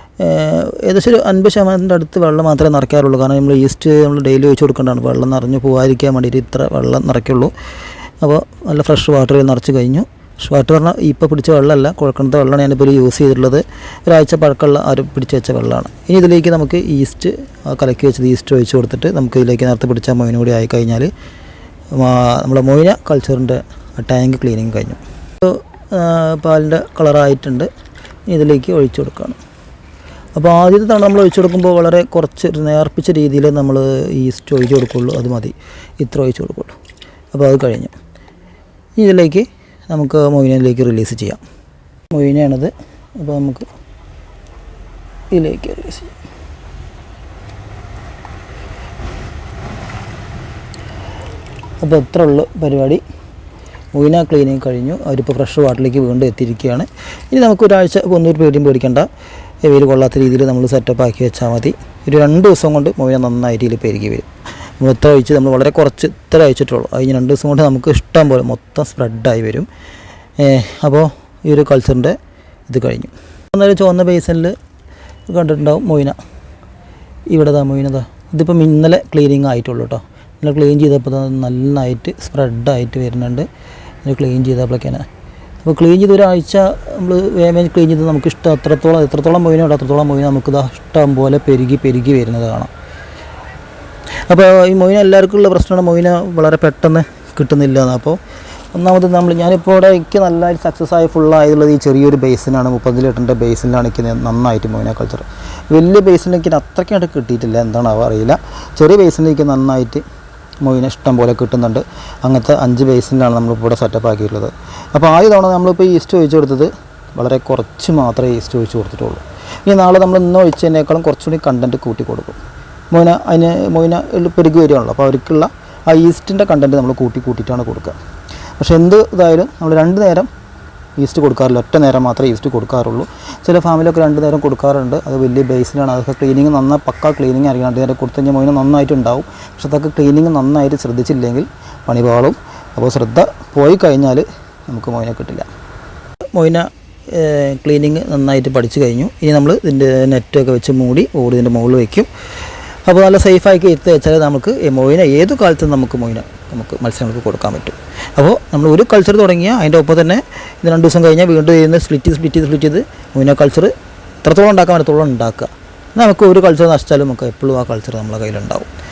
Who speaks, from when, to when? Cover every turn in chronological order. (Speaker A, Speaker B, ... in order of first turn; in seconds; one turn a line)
Speaker A: 0.2-7.5
Speaker A: 8.2-21.1
Speaker A: 21.9-27.7
Speaker A: 28.3-29.4
Speaker A: 30.4-36.8
Speaker A: 37.3-37.9
Speaker A: 39.0-41.4
Speaker A: 42.1-43.7
Speaker A: 45.3-46.1
Speaker A: 51.8-53.0
Speaker A: 53.9-59.1
Speaker A: 59.6-64.3
Speaker A: 64.8-69.7
Speaker A: 70.4-74.6
Speaker A: 75.3-76.2
Speaker A: 77.3-83.5
Speaker A: 84.0-85.1
Speaker A: 85.6-92.7
Speaker A: 94.3-98.2
Speaker A: 98.7-110.0
Speaker A: 110.6-122.4
Speaker A: 122.9-128.0
Speaker A: 128.6-130.3
Speaker A: 131.0-145.5
Speaker A: 146.3-152.1
Speaker A: 152.9-163.7
Speaker A: 164.2-168.7